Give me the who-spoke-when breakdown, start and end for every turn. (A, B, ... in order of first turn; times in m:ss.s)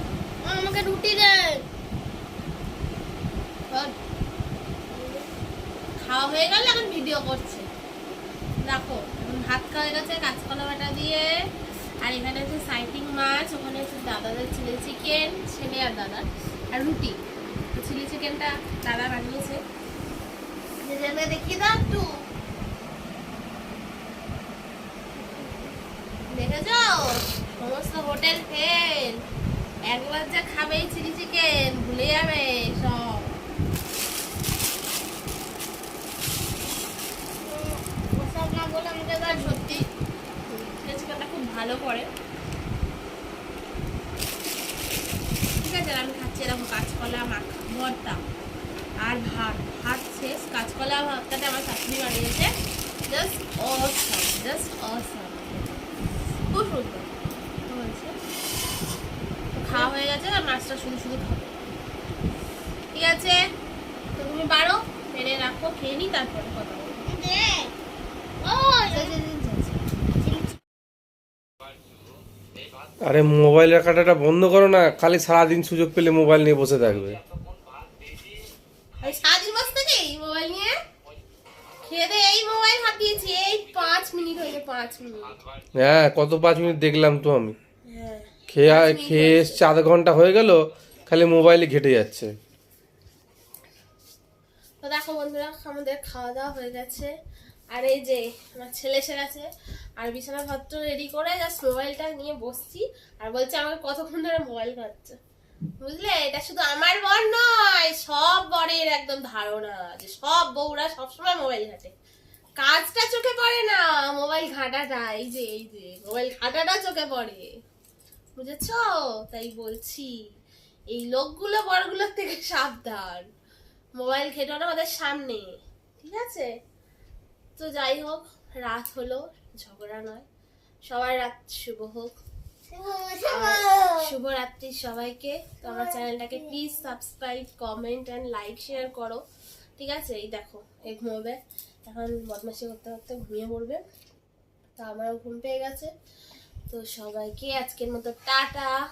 0:00.4-0:01.5 A
0:04.9-0:05.2 B
0:06.0-0:07.7 A
0:08.6-0:11.3 A
0:12.0-0:17.2 A
0:17.7-0:19.6 A
0:20.8-0:22.1 A
0:25.3-0:25.6 B
0:26.3-0:29.2 A
0:29.9-0:33.4 A
0:37.4-0:39.8 B
0:39.2-0:39.8 A
0:40.5-0:42.1 A
0:45.6-0:48.2 A
0:49.0-0:52.5 A
0:53.1-0:55.8 A
0:56.4-0:57.1 A
0:57.7-0:58.2 A
0:59.5-1:01.5 A
1:02.9-1:03.4 A
1:04.2-1:07.0 A
1:07.0-1:07.7 B
1:08.4-1:09.1 B
1:08.9-1:09.8 A
1:10.2-1:10.6 B
1:13.0-1:17.2 C
1:19.0-1:20.7 A
1:21.8-1:25.4 A
1:25.8-1:27.5 C
1:27.8-1:29.6 A
1:28.5-1:32.3 C
1:34.8-1:37.1 A
1:37.7-1:45.2 A
1:45.8-1:51.9 A
1:52.6-1:57.5 A
1:58.4-2:00.2 A
2:00.9-2:03.2 A
2:03.9-2:06.5 A
2:07.6-2:10.2 A
2:10.8-2:12.1 A
2:12.7-2:14.1 B
2:13.2-2:19.2 A
2:15.6-2:16.0 B
2:19.8-2:23.8 A
2:24.8-2:25.9 A
2:26.7-2:28.7 A